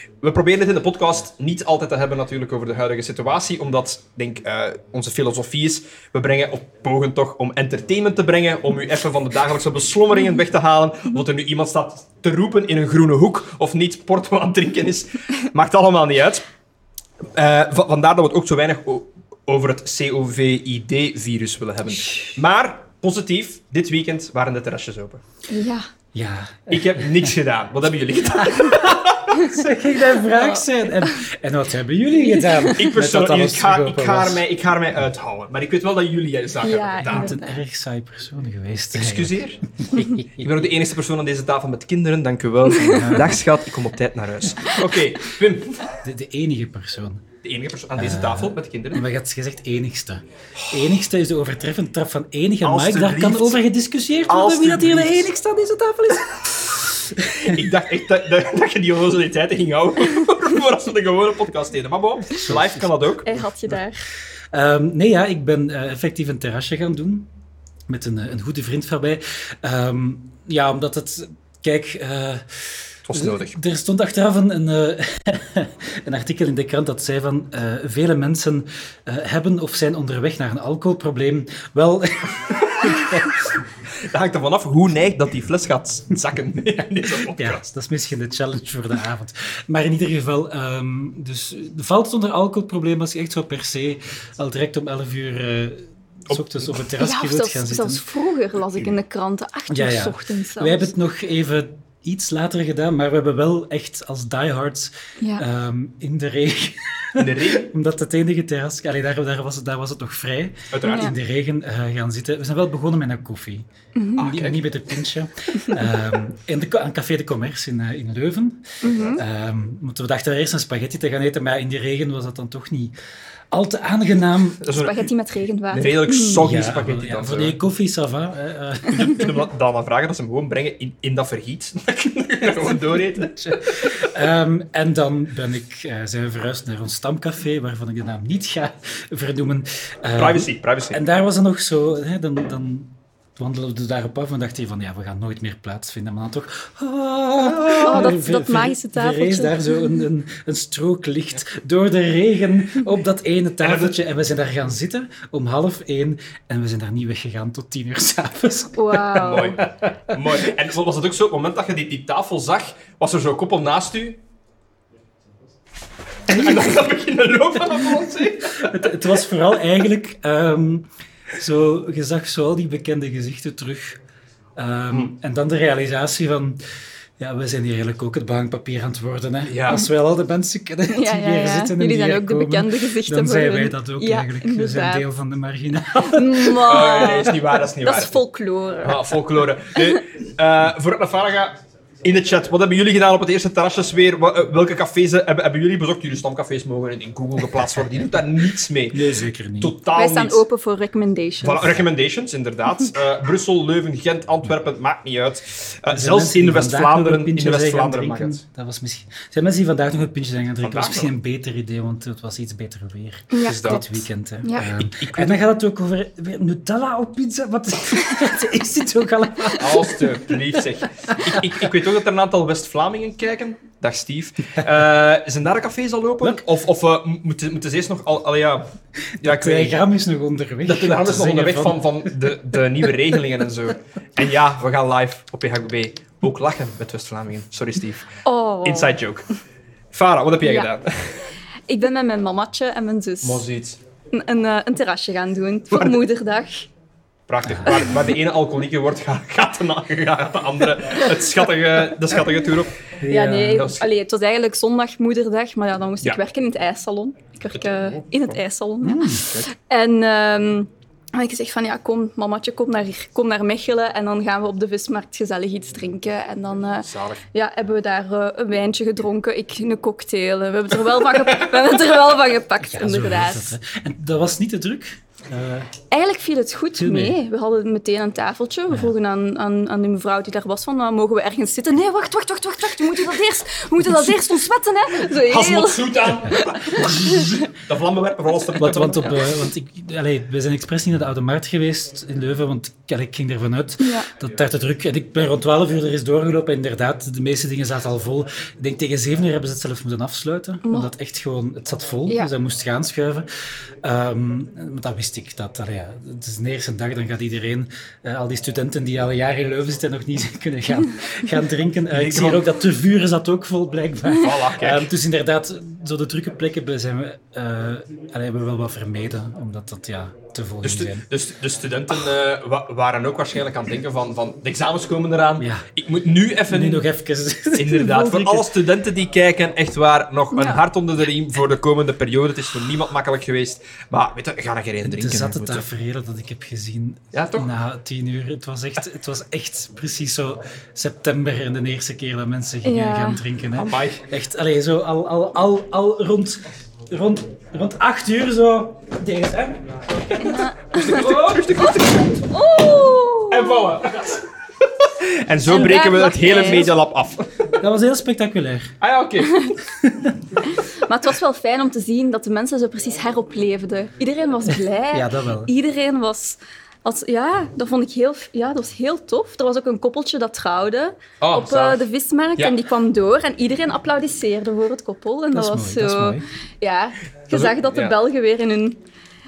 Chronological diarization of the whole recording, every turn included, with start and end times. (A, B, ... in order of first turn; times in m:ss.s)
0:00.2-0:16.4 A
0:17.3-0:25.2 A
0:25.5-0:25.9 B
0:26.1-0:27.3 C
0:26.7-0:29.4 A
0:28.4-0:34.4 C
0:30.3-0:31.1 B
0:32.2-0:32.8 B
0:32.7-0:37.4 A
0:36.6-0:37.6 B
0:37.1-0:40.5 C
0:38.9-0:45.9 A
0:42.7-0:43.2 B
0:42.8-0:43.4 C
0:46.0-0:47.2 C
0:47.4-0:49.0 A
0:48.0-0:56.4 C
0:50.6-0:51.0 A
0:52.6-0:53.6 A
0:54.3-0:56.6 A
0:57.2-0:57.6 C
0:57.4-1:03.3 A
1:02.4-1:02.9 C
1:03.2-1:04.0 B
1:04.5-1:07.3 C
1:07.9-1:23.5 C
1:13.0-1:13.6 A
1:22.8-1:23.4 A
1:23.9-1:27.6 A
1:27.3-1:38.0 C
1:36.3-1:36.8 A
1:37.0-1:40.9 B
1:39.7-1:53.6 C
1:47.2-1:47.7 A
1:50.7-1:51.1 A
1:50.8-1:51.1 B
1:54.0-1:54.2 B
1:54.2-1:54.6 A
1:54.2-2:02.9 C
1:58.8-1:59.2 B
1:58.9-1:59.2 A
2:03.5-2:04.6 C
2:04.6-2:05.1 A
2:04.7-2:06.5 B
2:05.7-2:07.6 A
2:06.4-2:09.3 C
2:08.9-2:13.9 A
2:13.1-2:40.2 C
2:20.2-2:21.0 A
2:27.5-2:28.1 A
2:27.8-2:30.0 B
2:33.6-2:34.0 A
2:38.8-2:39.6 B
2:39.2-2:44.2 A
2:46.3-2:48.9 A
2:48.5-2:54.0 C
2:54.6-2:56.6 C
2:57.2-3:07.0 C
2:59.5-2:59.9 A
3:00.9-3:05.0 B
3:06.0-3:09.2 B
3:06.6-3:08.2 A
3:08.8-3:19.0 A
3:09.8-3:10.0 B
3:18.9-3:19.7 C
3:19.6-3:20.4 A
3:19.9-3:21.7 B
3:21.4-3:28.4 A
3:25.9-3:41.5 C
3:30.6-3:31.1 A
3:33.3-3:33.9 B
3:33.4-3:34.0 A
3:34.6-3:35.4 A
3:39.6-3:49.8 A
3:49.2-3:52.3 C
3:50.6-3:59.2 A
3:58.2-3:59.0 B
3:59.9-4:01.3 A
4:00.4-4:00.7 B
4:01.7-4:03.4 B
4:03.2-4:03.8 A
4:04.1-4:06.7 B
4:05.7-4:06.0 A
4:07.3-4:12.7 A
4:07.4-4:07.8 C
4:07.7-4:08.0 B
4:13.0-4:13.7 C
4:13.1-4:33.5 B
4:13.5-4:13.9 A
4:17.5-4:18.4 A
4:18.8-4:19.3 C
4:26.8-4:27.2 A
4:32.6-4:35.7 C
4:35.9-4:47.4 B
4:36.8-4:37.2 C
4:45.1-4:49.3 A
4:48.5-5:03.3 C
4:53.8-4:54.1 B
5:00.6-5:00.9 B
5:03.8-5:21.0 C
5:11.9-5:12.5 A
5:14.1-5:14.9 A
5:20.6-5:26.9 A
5:25.4-5:25.7 C
5:26.5-5:28.5 C
5:27.6-5:35.6 A
5:30.3-5:30.6 B
5:34.8-5:50.5 C
5:37.1-5:37.5 A
5:42.6-5:43.2 B
5:43.5-5:44.0 A
5:50.2-5:53.7 B
5:50.7-5:52.3 A
5:53.3-5:57.5 A
5:55.5-5:56.7 B
5:57.6-5:58.7 C
5:58.8-5:59.4 A
5:59.2-5:59.5 B
5:59.8-6:00.2 C
6:00.4-6:18.8 B
6:04.5-6:05.5 C
6:11.2-6:11.8 A
6:15.3-6:16.2 C
6:17.3-6:18.0 A